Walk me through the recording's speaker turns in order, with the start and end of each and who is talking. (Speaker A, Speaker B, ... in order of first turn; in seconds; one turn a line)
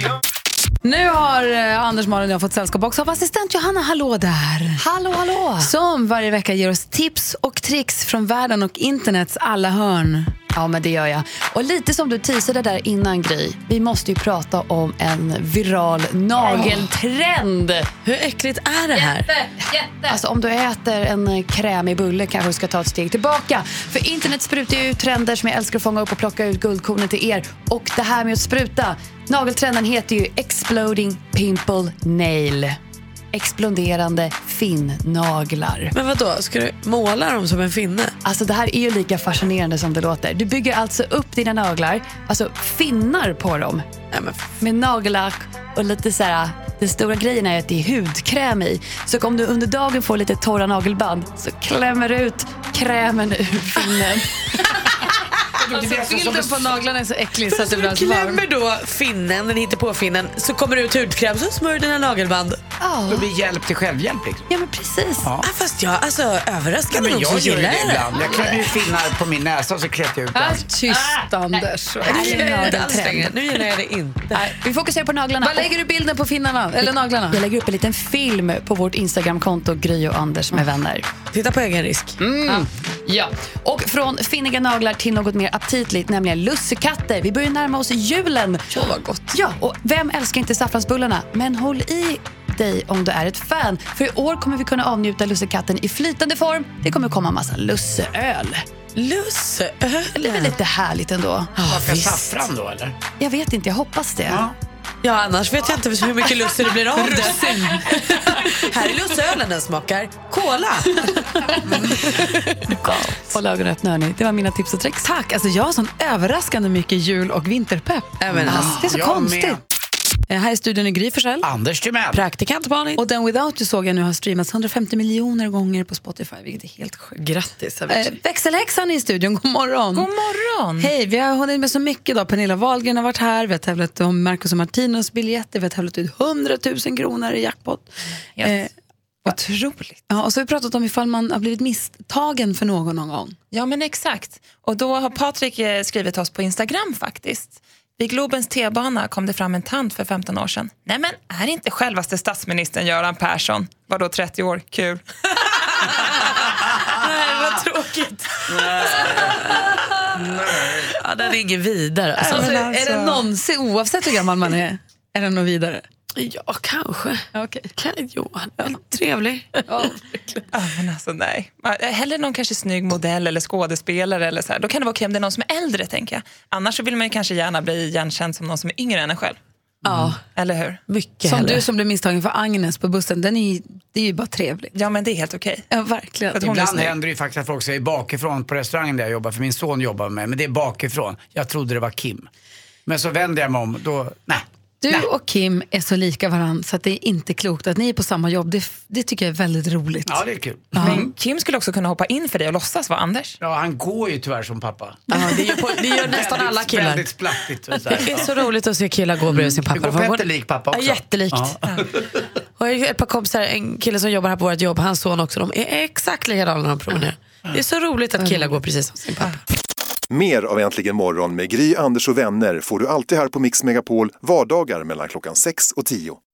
Speaker A: 0.8-4.8
Speaker B: 4.8-5.7
Speaker A: 5.6-10.3
Speaker B: 10.5-17.9
Speaker C: 18.1-19.3
Speaker A: 18.9-20.2
Speaker B: 20.1-32.8
Speaker B: 33.3-35.9
Speaker C: 35.9-38.1
Speaker B: 38.2-43.9
Speaker C: 44.1-44.6
Speaker B: 44.6-54.3
Speaker D: 55.6-56.9
Speaker A: 55.7-58.4
Speaker C: 57.5-62.6
Speaker B: 62.8-63.3
Speaker D: 63.1-64.5
Speaker B: 64.5-65.3
Speaker D: 65.2-65.5
Speaker C: 65.4-68.2
Speaker D: 66.9-70.7
Speaker A: 68.3-68.6
Speaker A: 70.3-73.3
Speaker C: 72.0-74.4
Speaker B: 72.2-72.6
Speaker B: 74.5-75.7
Speaker A: 75.4-77.4
Speaker B: 77.3-81.1
Speaker C: 81.3-82.2
Speaker B: 82.2-98.7
Speaker A: 82.2-82.7
Speaker C: 99.0-100.5
Speaker B: 100.2-102.3
Speaker D: 101.6-103.0
Speaker B: 103.2-104.5
Speaker D: 104.3-104.5
Speaker C: 105.0-112.7
Speaker A: 107.0-107.9
Speaker D: 111.7-112.0
Speaker B: 112.8-115.1
Speaker A: 115.0-119.6
Speaker C: 118.2-118.7
Speaker D: 118.3-119.6
Speaker A: 120.3-121.5
Speaker D: 121.4-122.2
Speaker C: 122.1-123.0
Speaker A: 123.0-127.1
Speaker B: 127.2-128.0
Speaker C: 127.2-127.6
Speaker A: 127.9-130.1
Speaker E: 129.9-130.9
Speaker A: 130.8-137.9
Speaker E: 138.4-138.7
Speaker A: 138.4-138.7
Speaker E: 139.3-140.0
Speaker A: 140.1-143.4
Speaker E: 143.5-155.0
Speaker C: 156.9-159.7
Speaker C: 160.8-162.4
Speaker A: 162.2-165.8
Speaker E: 162.3-163.2
Speaker C: 166.2-169.9
Speaker A: 167.3-167.7
Speaker A: 169.7-170.0
Speaker E: 170.5-179.4
Speaker D: 179.8-180.1
Speaker E: 180.3-180.8
Speaker C: 180.9-181.6
Speaker A: 181.2-184.7
Speaker E: 184.8-185.7
Speaker A: 185.7-186.5
Speaker E: 186.3-186.9
Speaker D: 186.4-192.3
Speaker D: 192.9-195.0
Speaker A: 194.8-201.1
Speaker D: 200.1-201.1
Speaker E: 200.8-203.4
Speaker D: 203.4-205.1
Speaker C: 205.1-207.1
Speaker D: 205.9-208.4
Speaker C: 207.9-211.5
Speaker D: 209.2-212.0
Speaker C: 212.6-219.4
Speaker A: 218.2-218.6
Speaker F: 220.1-226.2